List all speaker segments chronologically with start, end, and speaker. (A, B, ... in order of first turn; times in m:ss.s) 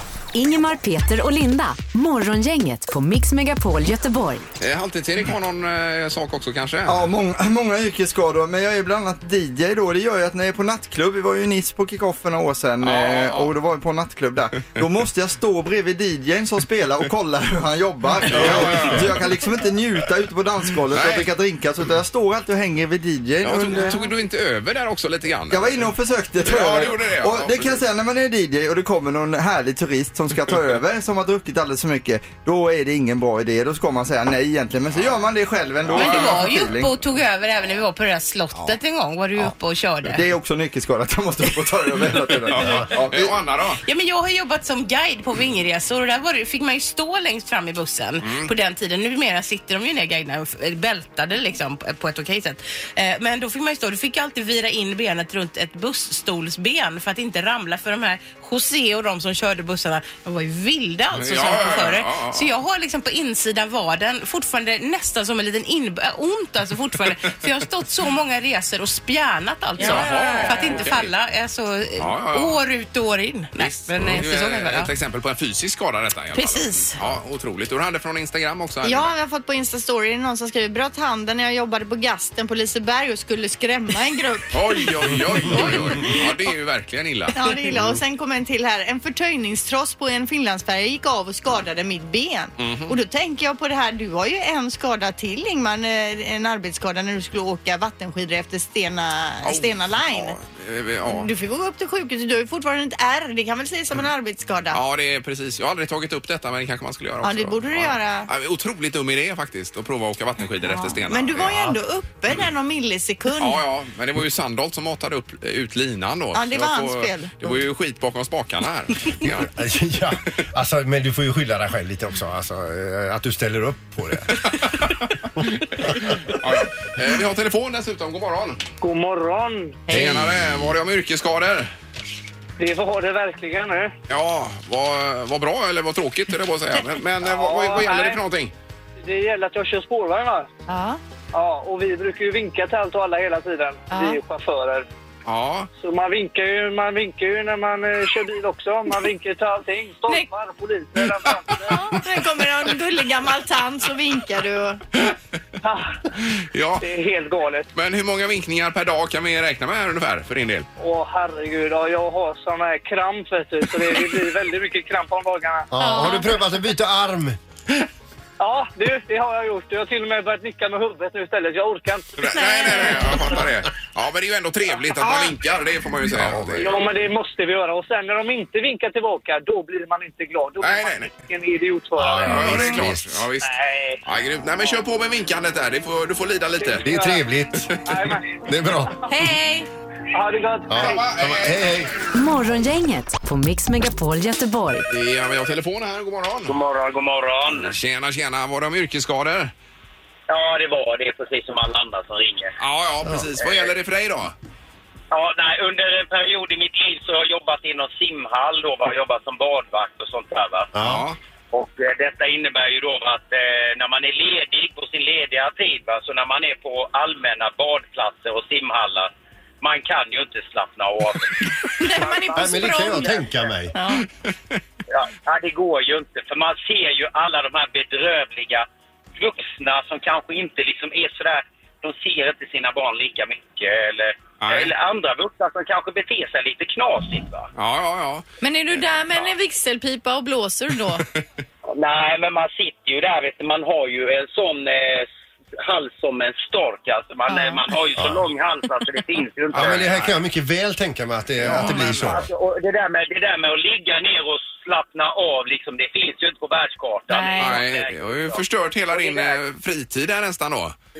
0:00.3-0:04.4 A
0:04.6-0:07.0 B
0:06.9-0:24.0 C
0:12.8-0:13.5 B
0:18.2-0:19.3 B
0:20.9-0:21.3 B
0:23.4-0:25.8 B
0:25.5-0:37.0 C
0:26.4-0:27.8 B
0:35.8-0:36.7 B
0:35.9-0:40.2 D
0:40.0-0:43.3 C
0:42.5-0:43.8 B
0:42.6-0:42.8 E
0:43.8-1:14.9 D
0:48.2-0:48.5 B
1:01.1-1:02.5 B
1:09.8-1:11.1 B
1:12.0-1:12.6 B
1:13.6-1:19.1 B
1:16.3-1:17.0 D
1:18.8-1:26.2 F
1:24.5-1:27.4 B
1:27.3-1:40.4 F
1:32.6-1:33.0 B
1:39.4-1:41.3 B
1:41.1-1:44.8 F
1:44.7-1:51.5 B
1:47.2-1:48.3 F
1:50.6-1:53.6 F
1:53.4-1:59.5 B
1:56.3-1:57.5 F
1:59.4-2:04.5 E
2:04.4-2:08.6 B
2:08.8-2:09.9 G
2:09.9-2:11.7 B
2:09.9-2:10.7 E
2:12.6-2:13.9 G
2:14.1-2:18.5 B
2:17.2-2:18.2 G
2:19.0-2:20.5 G
2:20.7-2:21.0 F
2:21.3-2:24.9 G
2:23.9-2:24.2 F
2:25.2-2:25.7 B
2:25.8-2:31.8 G
2:31.6-2:34.8 F
2:35.6-2:36.0 G
2:36.5-2:36.8 B
2:36.8-2:37.7 G
2:37.7-2:40.7 B
2:40.8-2:45.7 G
2:45.7-2:47.4 E
2:45.8-2:46.3 F
2:48.4-2:52.1 G
2:52.2-2:56.8 B
2:52.3-2:53.4 F
2:56.1-2:56.7 E
2:56.6-3:02.7 G
3:00.6-3:01.1 B
3:02.0-3:03.2 E
3:02.2-3:03.5 B
3:03.4-3:04.0 H
3:04.0-3:06.9 B
3:06.6-3:07.3 G
3:06.8-3:07.7 E
3:07.6-3:08.0 B
3:07.8-3:09.2 G
3:08.5-3:09.0 E
3:09.1-3:09.6 D
3:10.1-3:11.0 G
3:10.7-3:11.9 E
3:10.8-3:11.8 B
3:12.1-3:14.9 A
3:14.9-3:16.6 B
3:16.5-3:17.7 H
3:17.5-3:19.5 B
3:20.3-3:22.5 H
3:22.6-3:24.3 B
3:23.4-3:23.7 H
3:25.1-3:30.7 H
3:30.7-3:31.1 E
3:30.8-3:31.2 B
3:31.5-3:43.1 H
3:41.8-3:44.0 F
3:42.3-3:43.8 E
3:44.9-3:57.5 H
3:54.4-3:54.7 B
3:57.5-3:58.2 B
3:58.4-4:01.0 F
4:01.7-4:05.1 H
4:05.6-4:09.8 H
4:07.3-4:07.6 F
4:08.0-4:08.3 E
4:09.5-4:12.3 E
4:09.5-4:10.2 B
4:11.4-4:12.1 B
4:12.1-4:18.4 H
4:17.1-4:17.6 F
4:17.4-4:20.8 B
4:18.9-4:19.4 H